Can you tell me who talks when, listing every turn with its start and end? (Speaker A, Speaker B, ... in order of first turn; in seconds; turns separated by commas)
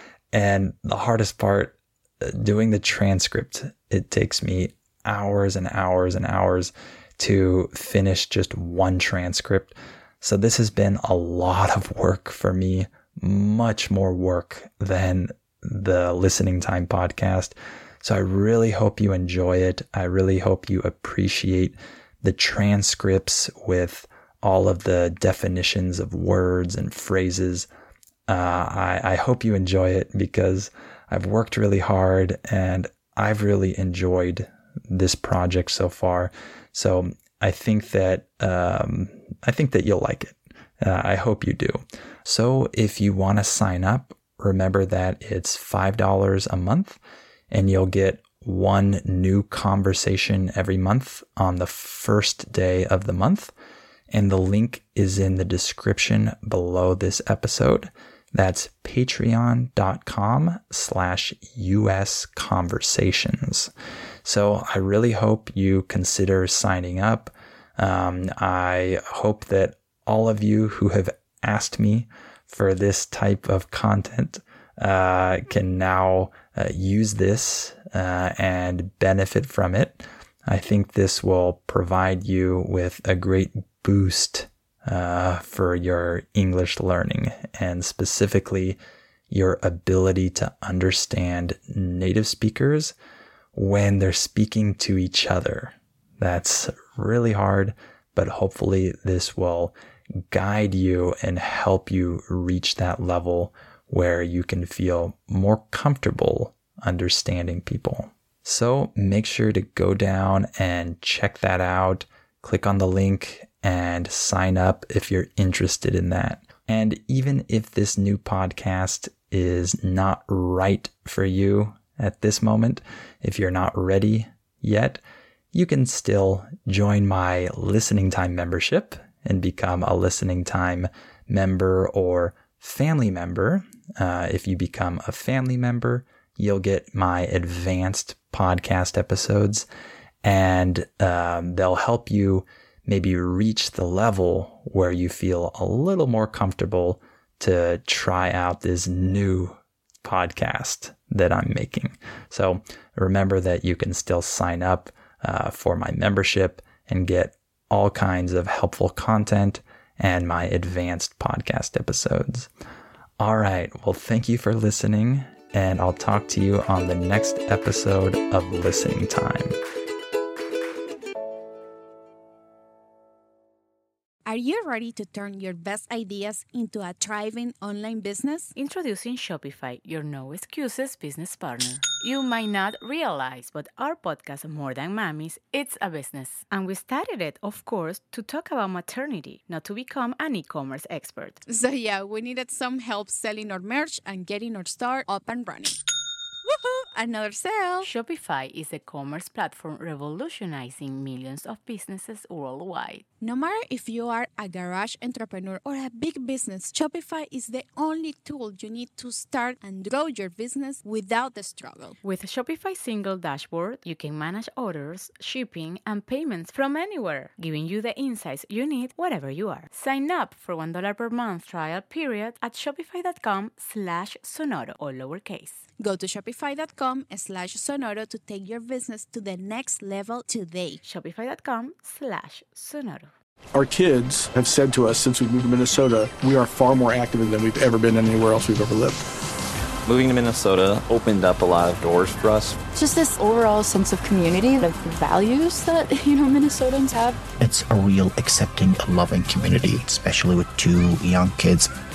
Speaker A: 0.3-27.7, Speaker A: 28.3-47.0, Speaker A: 47.5-53.5, Speaker A: 54.1-63.7, Speaker A: 64.2-88.8, Speaker A: 89.3-92.9, Speaker A: 93.5-125.0, Speaker A: 125.5-139.7, Speaker A: 140.2-162.5, Speaker A: 163.2-169.6, Speaker B: 174.2-178.5, Speaker C: 178.5-191.4, Speaker B: 191.5-195.8, Speaker B: 196.4-197.9, Speaker C: 197.8-203.0, Speaker B: 203.2-212.0, Speaker C: 212.0-225.6, Speaker B: 225.8-230.8, Speaker C: 230.8-233.1, Speaker D: 233.5-239.0, Speaker E: 239.8-242.6, Speaker F: 242.7-247.2, Speaker G: 247.4-251.7